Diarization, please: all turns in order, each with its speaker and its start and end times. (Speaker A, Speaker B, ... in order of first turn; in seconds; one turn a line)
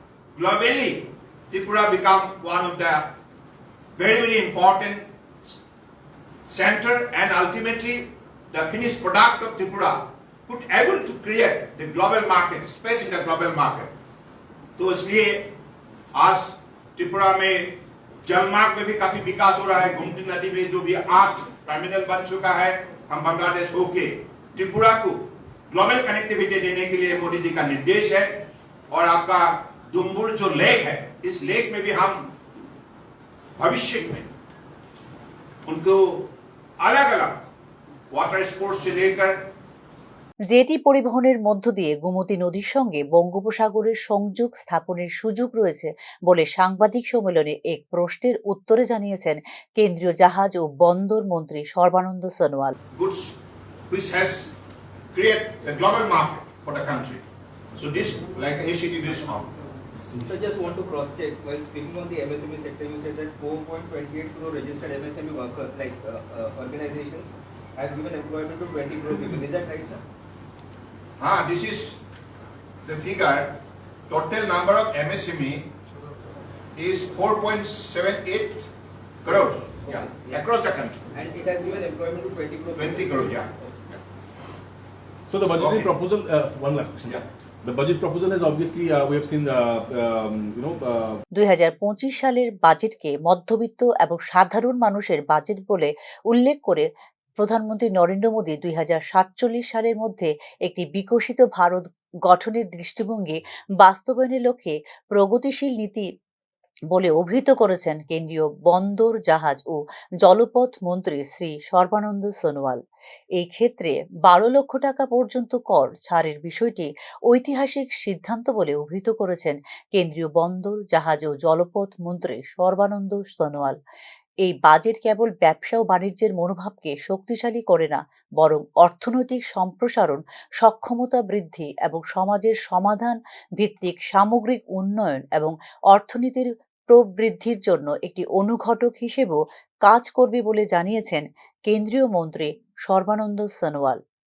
Speaker A: 0.3-3.1
Speaker A: 4.0-5.6
Speaker A: 6.5-13.9
Speaker A: 14.8-15.5
Speaker A: 16.1-32.3
Speaker A: 33.6-34.3
Speaker A: 35.7-36.3
Speaker A: 36.8-37.4
Speaker A: 38.1-39.4
Speaker B: 40.5-52.8
Speaker A: 53.0-53.4
Speaker A: 53.9-54.5
Speaker A: 55.1-57.2
Speaker A: 57.8-59.5
Speaker C: 60.2-70.0
Speaker A: 71.2-72.0
Speaker A: 72.8-75.7
Speaker A: 76.8-78.7
Speaker A: 79.2-81.1
Speaker C: 79.8-80.4
Speaker C: 81.1-83.4
Speaker A: 82.8-84.0
Speaker D: 85.3-91.2
Speaker A: 85.5-85.9
Speaker B: 91.3-96.9
Speaker B: 97.4-106.1
Speaker B: 106.9-112.8
Speaker B: 113.4-123.8
Speaker B: 124.4-144.0